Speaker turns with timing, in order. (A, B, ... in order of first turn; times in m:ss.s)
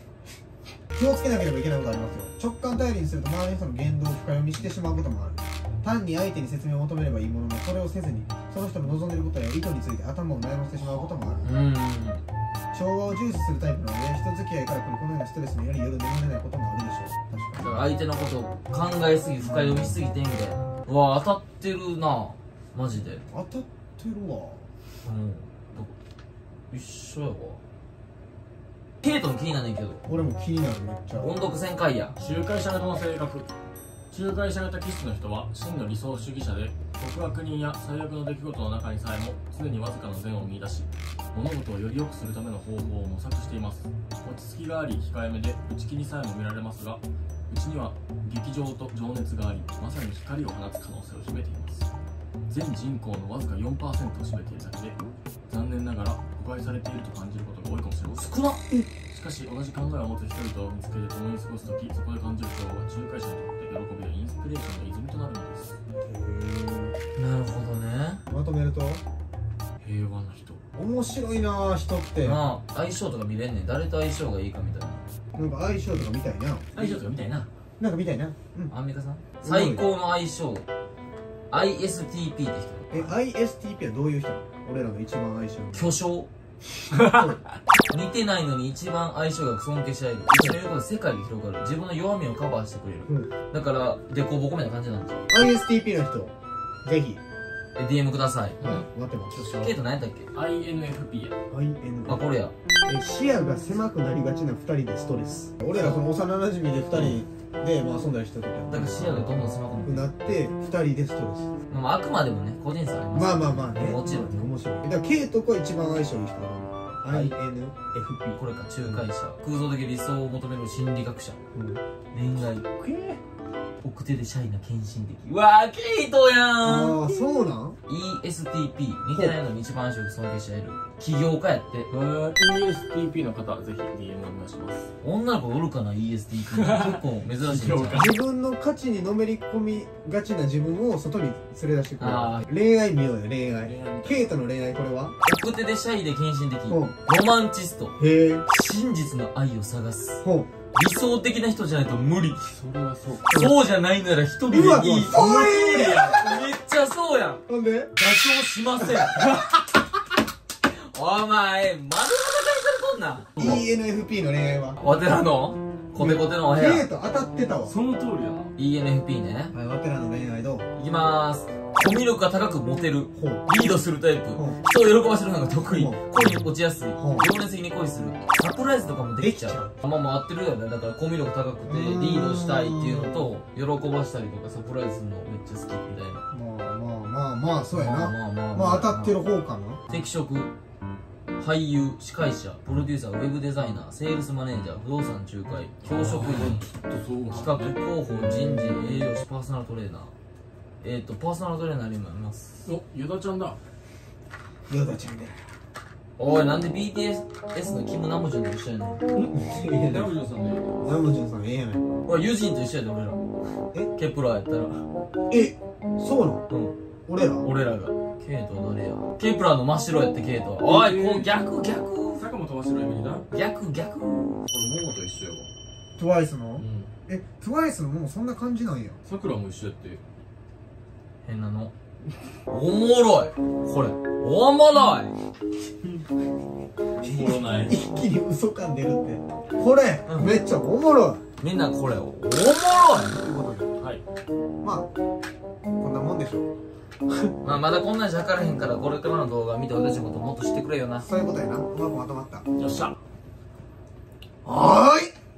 0:01.0-0:11.5 A
0:10.8-0:11.1 B
0:11.4-0:12.2 C
0:12.7-0:17.8 A
0:17.6-0:23.2 C
0:23.3-0:24.7 A
0:25.0-0:26.0 C
0:26.7-0:27.6 C
0:29.0-0:30.0 C
0:30.1-0:31.6 A
0:31.2-0:32.2 C
0:32.2-0:33.5 B
0:34.1-0:51.9 B
0:52.5-0:58.3 B
0:58.1-0:58.9 C
0:59.1-1:05.8 B
1:06.0-1:07.0 A
1:07.2-1:08.2 C
1:08.3-1:09.0 A
1:09.8-1:10.6 B
1:10.8-1:12.4 A
1:12.2-1:15.0 C
1:15.3-1:16.9 A
1:16.7-1:17.5 B
1:17.8-1:18.7 A
1:18.7-1:20.7 C
1:19.4-1:19.9 A
1:21.5-1:23.1 C
1:22.9-1:26.0 A
1:25.7-1:26.3 C
1:26.9-1:27.4 B
1:27.0-1:27.4 A
1:27.9-1:35.4 C
1:33.1-1:33.3 A
1:35.3-1:37.2 A
1:37.8-1:38.6 C
1:38.6-1:39.8 B
1:38.6-1:39.5 A
1:39.5-1:40.3 C
1:40.3-1:41.4 B
1:41.5-1:42.3 A
1:42.1-1:42.5 C
1:42.9-1:51.5 A
1:46.9-1:47.2 C
1:48.7-1:50.1 C
1:51.7-1:54.5 C
1:53.1-1:59.1 A
1:57.1-1:57.4 C
1:58.4-2:01.4 C
2:01.5-2:01.8 A
2:02.1-2:02.7 C
2:02.4-2:03.2 B
2:03.8-2:07.1 C
2:06.6-2:07.8 A
2:07.9-2:11.9 C
2:11.9-2:14.9 B
2:15.0-2:18.1 C
2:16.5-2:18.2 B
2:17.9-2:25.2 A
2:22.0-2:22.5 C
2:23.5-2:24.3 B
2:25.2-2:32.6 C
2:26.7-2:27.0 A
2:28.0-2:28.5 A
2:30.2-2:30.5 A
2:32.5-2:33.3 B
2:33.3-2:35.2 C
2:33.3-2:33.6 A
2:34.5-2:36.3 A
2:35.0-2:36.3 B
2:36.1-2:37.4 C
2:37.5-2:37.9 A
2:38.0-2:39.8 C
2:40.7-2:43.6 C
2:43.4-2:44.8 A
2:44.8-2:46.9 C
2:46.0-2:47.8 A
2:47.6-2:48.5 B
2:48.6-2:49.6 C
2:49.5-2:50.7 A
2:50.8-3:06.3 C
2:53.1-2:53.8 A
2:54.4-2:54.6 A
2:55.7-2:56.4 A
2:57.0-2:57.3 A
2:59.2-2:59.8 A
3:01.6-3:03.3 A
3:06.3-3:09.8 A
3:07.7-3:09.2 C
3:09.9-3:10.5 C
3:11.4-3:16.7 C
3:15.8-3:19.1 B
3:17.3-3:20.1 C
3:20.8-3:22.7 C
3:22.6-3:23.6 B
3:24.7-3:25.4 A
3:26.2-3:29.0 C
3:29.2-3:31.0 B
3:29.3-3:30.1 A
3:30.8-3:32.0 A
3:32.1-3:33.2 C
3:33.9-3:34.9 C
3:35.3-3:36.5 A
3:36.5-3:36.8 C
3:37.1-3:37.5 A
3:37.4-3:42.3 C
3:40.6-3:41.3 B
3:42.2-3:43.3 B
3:43.3-3:44.4 C
3:44.5-3:45.5 B
3:46.0-3:49.0 A
3:46.6-3:46.9 B
3:49.0-3:50.0 B
3:51.2-3:51.7 C
3:52.5-3:55.2 C
3:57.0-3:57.8 B
3:57.1-4:01.2 A
4:00.1-4:00.4 C
4:01.4-4:03.2 C
4:03.2-4:03.7 A
4:03.8-4:04.0 B
4:04.6-4:04.9 A
4:05.8-4:06.5 A
4:07.4-4:11.1 C
4:11.0-4:12.4 A
4:12.6-4:13.0 B
4:14.4-4:15.1 A